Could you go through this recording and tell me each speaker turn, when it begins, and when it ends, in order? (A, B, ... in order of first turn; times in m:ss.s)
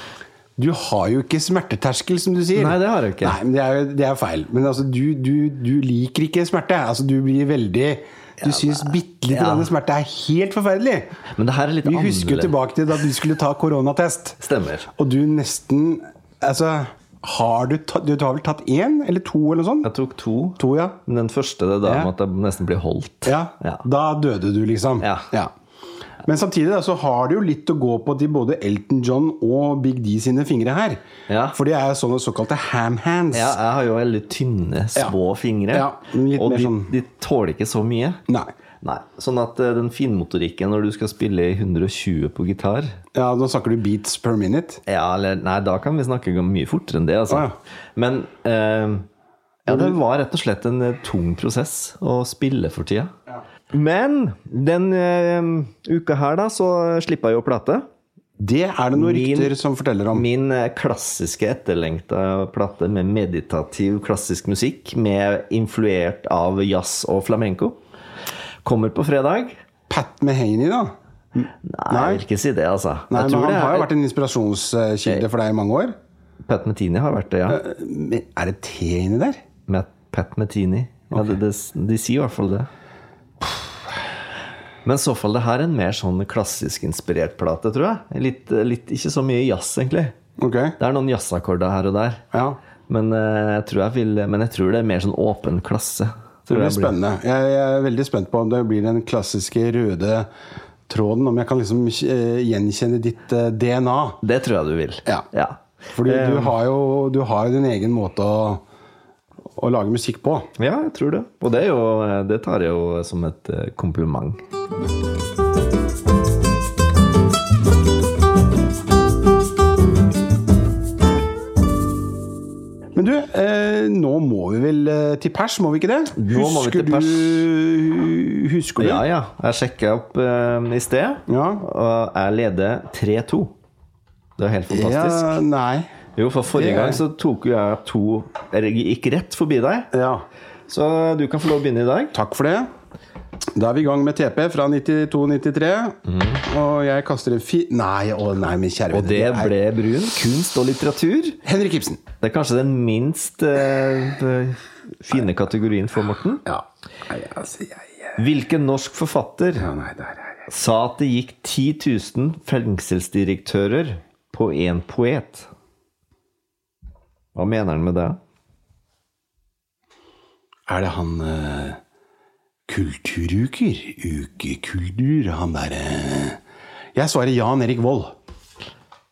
0:00.6-0:11.2 A
0:02.5-0:03.4 B
0:08.4-0:09.7 B
0:11.4-0:12.6 B
0:11.8-0:14.4 A
0:14.4-0:14.9 B
0:15.0-0:19.9 A
0:19.8-0:23.8 B
0:20.6-0:21.0 A
0:21.8-0:22.1 A
0:23.2-0:25.5 A
0:25.0-0:25.3 B
0:26.2-0:31.0 A
0:31.3-0:31.6 B
0:31.5-0:33.6 A
0:33.3-0:38.2 B
0:35.7-0:36.9 A
0:38.8-0:43.0 B
0:43.2-0:44.8 A
0:44.9-0:49.1 B
0:47.3-0:47.6 A
0:49.7-0:50.0 A
0:49.7-0:53.1 B
0:53.7-0:57.9 B
0:58.4-1:00.3 A
0:59.0-0:59.5 B
1:00.1-1:07.8 B
1:08.6-1:09.6 B
1:09.9-1:12.2 A
1:11.6-1:13.9 B
1:13.1-1:16.0 A
1:16.4-1:17.6 B
1:17.5-1:19.4 A
1:19.7-1:22.7 B
1:24.8-1:30.2 B
1:30.4-1:30.8 A
1:30.8-1:32.2 B
1:32.3-1:32.6 A
1:32.9-1:37.0 B
1:36.5-1:40.3 A
1:40.9-1:44.2 A
1:44.2-1:46.6 B
1:45.9-1:48.6 A
1:49.6-1:50.5 A
1:50.6-1:54.4 B
2:03.0-2:09.0 A
2:06.2-2:07.5 B
2:08.8-2:13.5 B
2:11.3-2:11.6 A
2:14.4-2:15.4 B
2:14.7-2:15.9 A
2:16.2-2:19.9 B
2:16.5-2:17.0 A
2:19.9-2:20.2 A
2:20.7-2:22.1 B
2:22.1-2:22.7 A
2:23.6-2:29.5 A
2:26.1-2:26.4 B
2:28.9-2:31.4 B
2:31.4-2:32.0 A
2:32.2-2:36.4 B
2:36.5-2:38.2 A
2:38.2-2:39.7 B
2:39.6-2:40.5 A
2:40.5-2:45.5 B
2:47.4-2:48.2 B
2:50.7-2:51.8 A
2:52.7-2:56.4 A
2:57.0-2:58.1 A